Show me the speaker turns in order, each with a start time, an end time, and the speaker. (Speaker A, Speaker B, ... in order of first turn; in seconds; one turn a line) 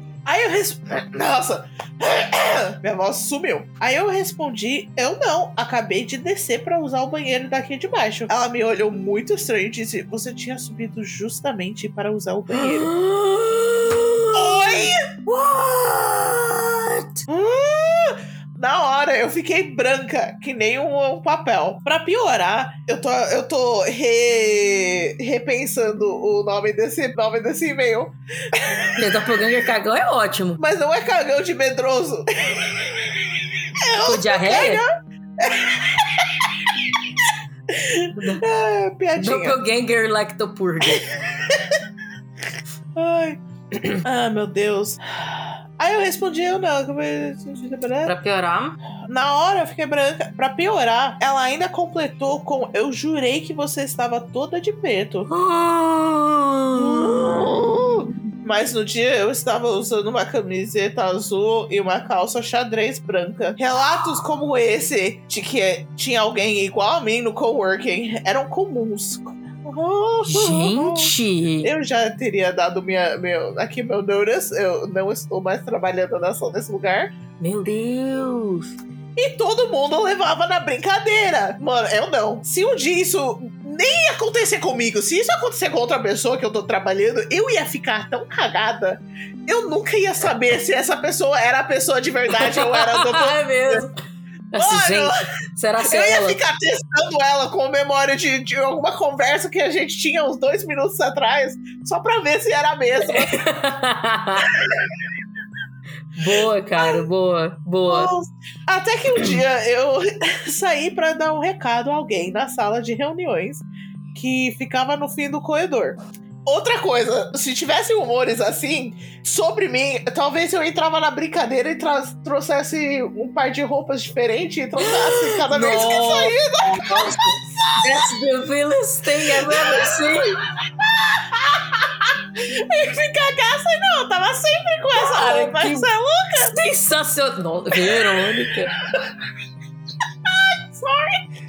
Speaker A: 0.2-12.9
Speaker B: 12.5-17.2
Speaker A: 14.3-15.2
Speaker A: 17.3-29.1
Speaker B: 29.0-30.6
Speaker A: 30.6-34.9
Speaker B: 34.0-34.8
Speaker A: 35.4-37.0
Speaker A: 37.7-39.6
Speaker B: 38.1-38.4
Speaker B: 39.2-41.0
Speaker A: 40.8-41.8
Speaker A: 43.0-43.4
Speaker B: 43.8-44.0
Speaker A: 44.0-48.1
Speaker B: 48.0-48.8
Speaker A: 49.1-55.3
Speaker B: 55.3-57.6
Speaker A: 56.7-71.1
Speaker B: 70.3-71.7
Speaker A: 71.6-77.1
Speaker B: 77.4-78.7
Speaker A: 79.2-93.8
Speaker B: 92.3-93.9
Speaker B: 94.5-96.4
Speaker A: 94.6-95.2
Speaker A: 95.8-103.4
Speaker B: 103.0-104.5
Speaker A: 104.5-104.9
Speaker B: 106.2-108.1
Speaker A: 106.4-107.0
Speaker A: 107.9-128.0
Speaker B: 109.2-109.4
Speaker B: 124.8-130.4
Speaker A: 129.2-136.6
Speaker B: 134.9-138.8
Speaker A: 137.7-139.2
Speaker A: 140.2-141.2